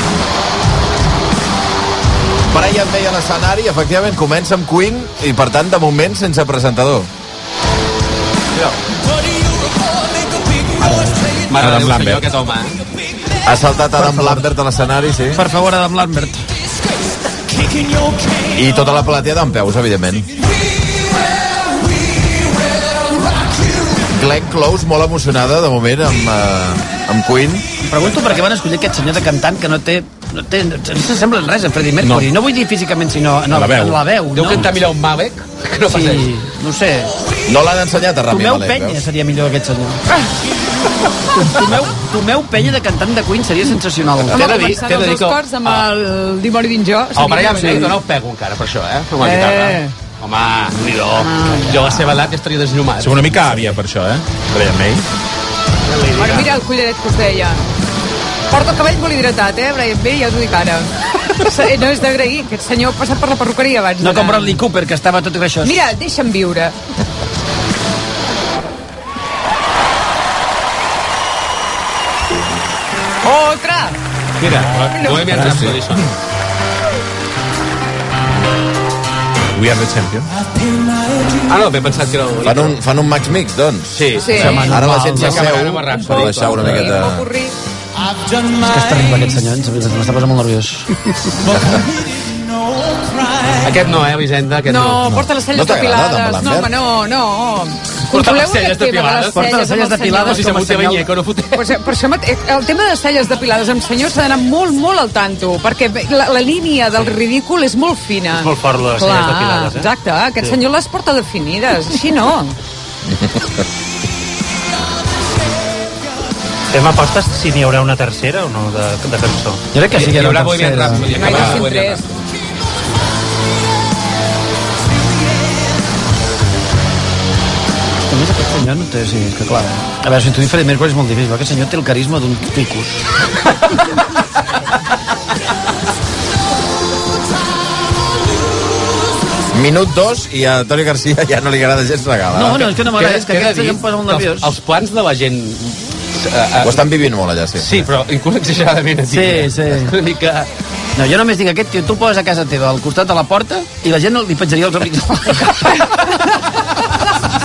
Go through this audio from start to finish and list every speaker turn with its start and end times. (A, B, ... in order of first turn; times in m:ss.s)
0:02.5-0:07.1 A
0:10.8-0:11.4 B
0:11.5-0:12.8 C
0:11.6-0:12.2 D
0:13.4-0:15.4 A
0:14.0-0:14.4 B
0:15.3-0:16.4 B
0:18.5-0:20.3 A
0:24.1-0:27.7 A
0:27.9-0:34.7 B
0:32.0-0:32.3 D
0:33.5-0:34.0 D
0:34.3-0:36.3 C
0:35.8-0:37.1 B
0:37.4-0:39.0 A
0:38.3-0:40.0 B
0:41.3-0:44.8 B
0:44.3-0:45.8 C
0:44.3-0:48.0 E
0:47.1-0:53.7 C
0:49.2-0:49.9 E
0:51.2-0:52.0 E
0:53.0-0:55.1 D
0:55.9-0:56.5 C
0:56.2-0:57.6 E
0:58.5-1:04.6 E
1:04.0-1:05.8 B
1:05.6-1:06.8 E
1:13.2-1:14.0 E
1:14.4-1:16.1 C
1:14.9-1:15.3 E
1:15.3-1:15.7 D
1:19.5-1:20.3 D
1:21.5-1:22.8 C
1:22.4-1:27.3 A
1:23.9-1:26.9 C
1:24.2-1:24.7 E
1:24.3-1:25.5 B
1:25.9-1:27.5 E
1:28.6-1:31.4 B
1:33.6-1:35.1 C
1:34.7-1:40.6 E
1:35.5-1:36.7 A
1:38.1-1:39.5 C
1:39.3-1:41.1 B
1:40.2-1:41.6 C
1:41.5-1:52.6 E
1:48.3-1:50.6 F
1:56.7-1:59.6 F
1:59.7-2:01.5 B
1:59.9-2:02.1 C
2:01.1-2:02.0 E
2:08.1-2:13.0 B
2:19.5-2:22.7 A
2:22.3-2:24.5 B
2:22.7-2:26.8 C
2:26.6-2:27.8 A
2:27.6-2:30.5 C
2:29.1-2:29.9 B
2:31.0-2:35.9 B